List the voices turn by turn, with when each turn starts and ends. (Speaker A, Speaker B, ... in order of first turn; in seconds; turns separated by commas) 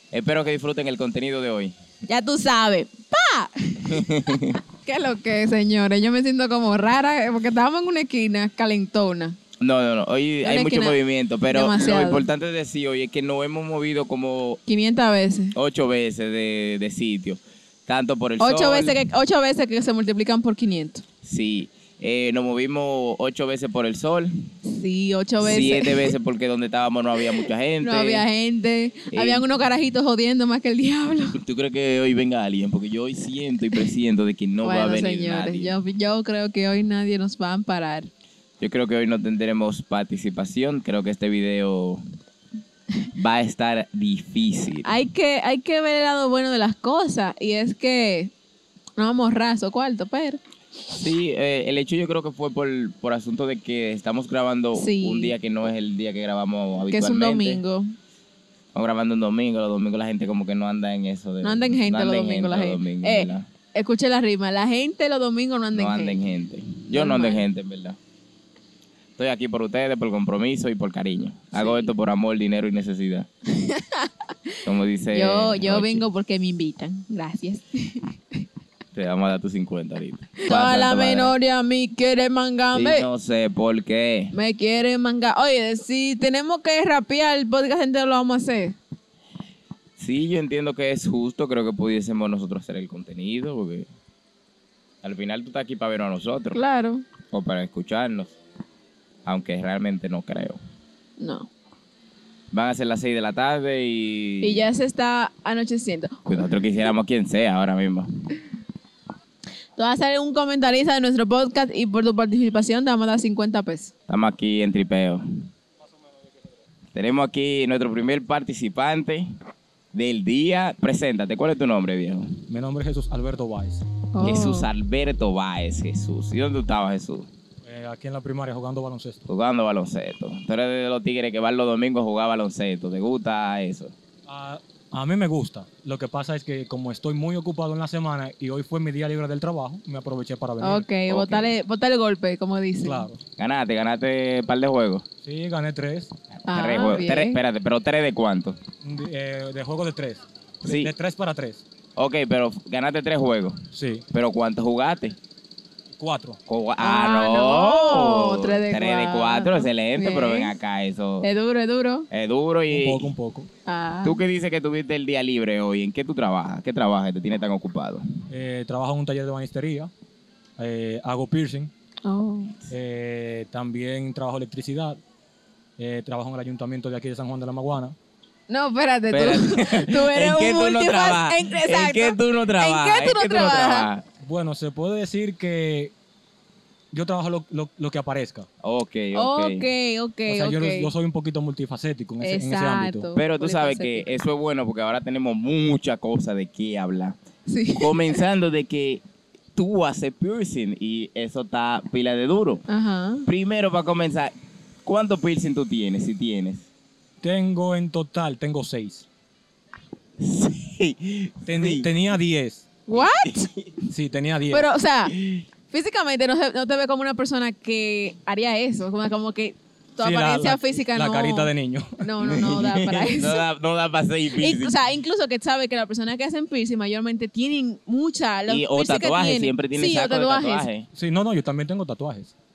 Speaker A: 0.1-1.7, Speaker B: 2.0-9.4, Speaker A: 3.9-4.5, Speaker A: 9.6-14.6, Speaker B: 10.4-12.2, Speaker B: 14.7-15.5, Speaker A: 15.5-19.0, Speaker B: 18.4-21.0, Speaker A: 21.2-24.3, Speaker B: 24.6-26.1, Speaker A: 25.4-28.2, Speaker B: 27.8-31.4, Speaker A: 29.1-29.4, Speaker A: 31.4-35.7, Speaker B: 34.6-38.1, Speaker A: 38.6-42.0, Speaker A: 43.1-45.0, Speaker B: 44.8-48.3, Speaker B: 49.0-50.4, Speaker A: 50.9-57.6, Speaker B: 54.7-55.3, Speaker B: 56.9-57.9, Speaker A: 58.7-63.5, Speaker B: 61.4-66.3, Speaker A: 65.7-68.0, Speaker B: 66.9-67.5, Speaker A: 69.2-73.3, Speaker B: 71.5-71.9, Speaker B: 73.5-74.3, Speaker A: 74.6-76.0, Speaker B: 75.1-78.4, Speaker A: 78.9-81.3, Speaker B: 80.4-83.1, Speaker A: 82.7-84.3, Speaker B: 84.3-88.8, Speaker A: 90.0-93.9, Speaker A: 95.0-96.6, Speaker B: 96.5-97.0, Speaker A: 97.3-98.3, Speaker A: 99.2-100.6, Speaker B: 101.2-101.5, Speaker A: 102.5-104.6, Speaker B: 104.4-106.5, Speaker A: 106.3-108.1, Speaker B: 109.8-113.9, Speaker A: 114.1-115.2, Speaker A: 116.9-119.2, Speaker A: 119.9-122.2, Speaker C: 122.5-123.8, Speaker B: 124.1-124.7, Speaker A: 124.2-127.3, Speaker C: 127.6-129.2, Speaker A: 129.3-133.9, Speaker C: 134.3-140.9, Speaker B: 140.6-143.1, Speaker A: 141.1-141.5, Speaker C: 142.8-143.2, Speaker A: 143.4-145.0, Speaker C: 145.2-146.1, Speaker A: 146.4-148.6, Speaker B: 146.5-147.4, Speaker C: 148.8-151.6, Speaker A: 150.6-150.9, Speaker A: 152.0-153.6, Speaker C: 153.7-154.0, Speaker A: 154.1-155.2, Speaker C: 155.9-156.4, Speaker A: 156.5-161.3, Speaker B: 156.8-160.5, Speaker B: 161.2-162.1, Speaker A: 162.1-163.1, Speaker C: 162.7-163.5, Speaker B: 163.7-164.2, Speaker A: 164.0-168.0, Speaker C: 168.3-169.9, Speaker C: 170.6-171.7, Speaker B: 172.0-172.5, Speaker C: 172.7-175.0, Speaker C: 175.8-177.9, Speaker B: 178.5-183.9, Speaker A: 179.1-184.0, Speaker C: 184.2-185.9, Speaker C: 186.9-188.4, Speaker A: 188.6-189.6, Speaker B: 189.1-190.9, Speaker C: 190.3-193.1, Speaker B: 192.2-194.1, Speaker A: 193.2-197.2, Speaker B: 197.5-198.2, Speaker A: 197.7-199.0, Speaker A: 199.5-202.6, Speaker B: 202.7-203.2, Speaker A: 203.3-204.3, Speaker A: 204.8-206.7, Speaker C: 207.2-209.1, Speaker A: 210.2-211.9, Speaker C: 211.5-212.7, Speaker B: 212.9-213.5, Speaker A: 212.9-213.7, Speaker C: 213.9-214.7, Speaker B: 214.5-215.1, Speaker A: 215.1-215.4, Speaker B: 215.7-223.4, Speaker C: 220.0-222.1, Speaker A: 222.2-224.8, Speaker B: 224.4-230.7, Speaker A: 228.5-230.8, Speaker C: 230.9-232.3